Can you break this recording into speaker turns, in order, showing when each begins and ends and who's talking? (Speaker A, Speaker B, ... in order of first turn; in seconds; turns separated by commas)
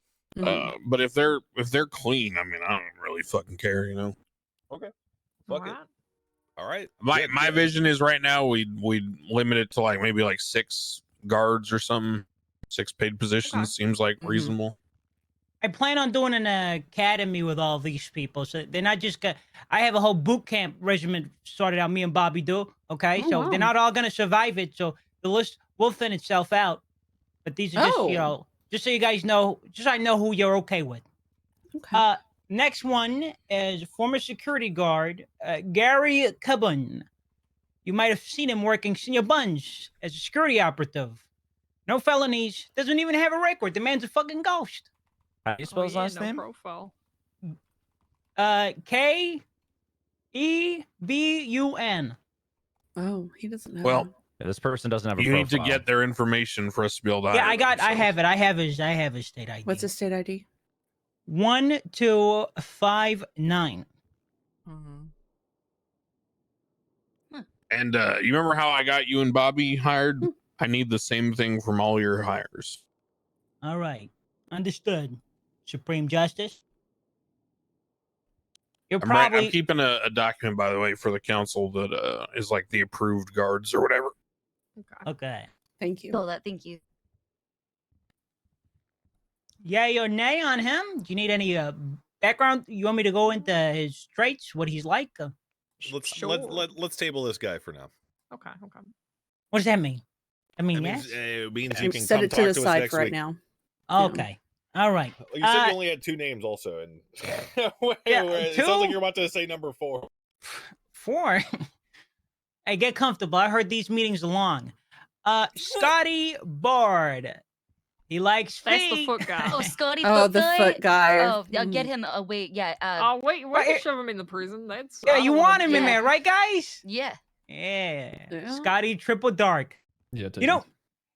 Speaker A: 0.3-0.7, Speaker B: 0.4-4.1, Speaker C: 5.5-5.9, Speaker D: 5.5-5.8, Speaker D: 6.6-7.9, Speaker B: 7.0-14.8, Speaker C: 13.4-13.7, Speaker A: 14.2-14.5, Speaker E: 15.6-26.8, Speaker A: 23.1-23.7, Speaker E: 27.4-31.0, Speaker A: 27.7-28.3, Speaker A: 31.7-32.0, Speaker E: 31.9-37.0, Speaker E: 37.8-41.2, Speaker E: 41.9-44.9, Speaker F: 45.4-46.4, Speaker C: 45.7-46.9, Speaker E: 48.4-49.4, Speaker E: 50.3-52.1, Speaker A: 53.0-54.1, Speaker B: 53.8-54.1, Speaker F: 54.4-55.8, Speaker B: 55.2-58.1, Speaker E: 57.3-59.9, Speaker A: 59.6-60.5, Speaker E: 61.3-63.9, Speaker A: 64.7-65.1, Speaker B: 67.7-72.8, Speaker E: 73.6-76.6, Speaker E: 78.9-79.6, Speaker B: 79.0-84.1, Speaker C: 84.8-85.1, Speaker E: 85.0-85.5, Speaker A: 85.8-86.2, Speaker G: 86.1-86.8, Speaker E: 89.6-95.3, Speaker C: 95.8-96.7, Speaker D: 95.8-97.9, Speaker C: 98.3-98.9, Speaker E: 99.5-100.0, Speaker E: 100.6-101.2, Speaker D: 100.7-103.2, Speaker A: 101.7-103.4, Speaker E: 103.9-105.8, Speaker A: 104.0-104.3, Speaker D: 105.2-110.1, Speaker E: 108.1-109.0, Speaker E: 110.5-111.4, Speaker E: 112.7-114.7, Speaker E: 115.2-117.4, Speaker E: 118.1-119.7, Speaker C: 118.6-119.7, Speaker G: 119.5-123.1, Speaker A: 120.0-121.9, Speaker C: 123.0-126.0, Speaker E: 123.5-123.8, Speaker E: 125.0-126.8, Speaker G: 125.7-126.0, Speaker G: 126.8-127.2, Speaker E: 127.5-129.8, Speaker A: 128.3-128.7, Speaker E: 130.4-130.6